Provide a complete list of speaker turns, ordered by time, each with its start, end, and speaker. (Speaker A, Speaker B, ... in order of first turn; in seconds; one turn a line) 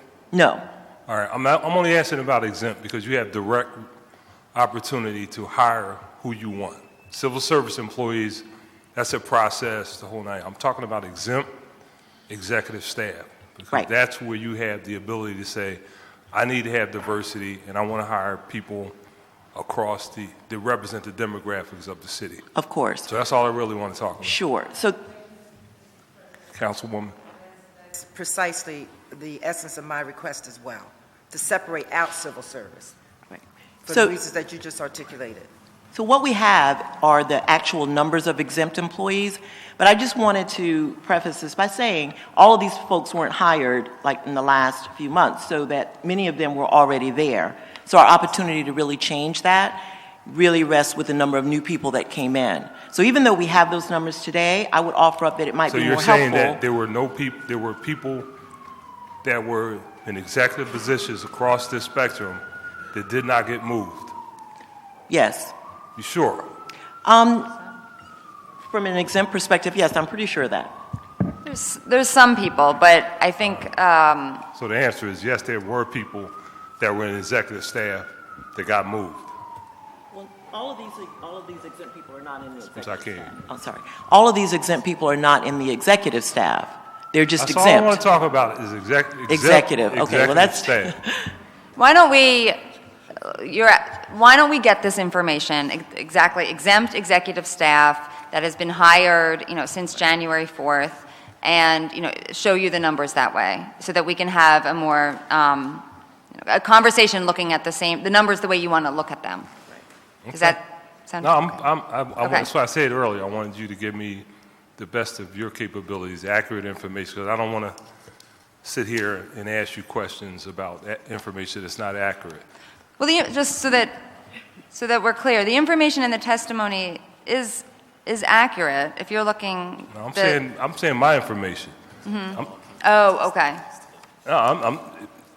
Speaker A: 0.3-0.7
Speaker B: 1.1-3.9
Speaker B: 4.5-11.5
Speaker B: 12.3-15.8
Speaker B: 16.3-18.9
Speaker B: 19.5-22.4
Speaker A: 22.6-23.1
Speaker B: 23.1-24.4
Speaker A: 24.2-25.0
Speaker B: 26.5-27.1
Speaker C: 27.9-32.9
Speaker A: 33.3-34.1
Speaker C: 33.8-35.5
Speaker A: 35.9-56.6
Speaker B: 55.7-58.3
Speaker B: 59.2-62.4
Speaker B: 62.9-64.1
Speaker A: 65.1-65.5
Speaker B: 66.0-66.5
Speaker A: 67.0-67.6
Speaker A: 68.6-70.8
Speaker D: 71.4-74.5
Speaker B: 74.5-79.3
Speaker A: 80.1-88.0
Speaker B: 82.8-83.3
Speaker B: 87.4-91.0
Speaker A: 89.3-91.3
Speaker D: 91.8-92.6
Speaker D: 93.1-109.5
Speaker B: 110.2-110.6
Speaker D: 110.3-111.6
Speaker B: 111.2-114.2
Speaker D: 112.2-112.5
Speaker B: 114.8-117.8
Speaker B: 118.6-122.4
Speaker D: 123.0-124.0
Speaker D: 124.7-130.4
Speaker B: 129.9-131.7
Speaker D: 132.0-133.6
Speaker B: 134.2-135.1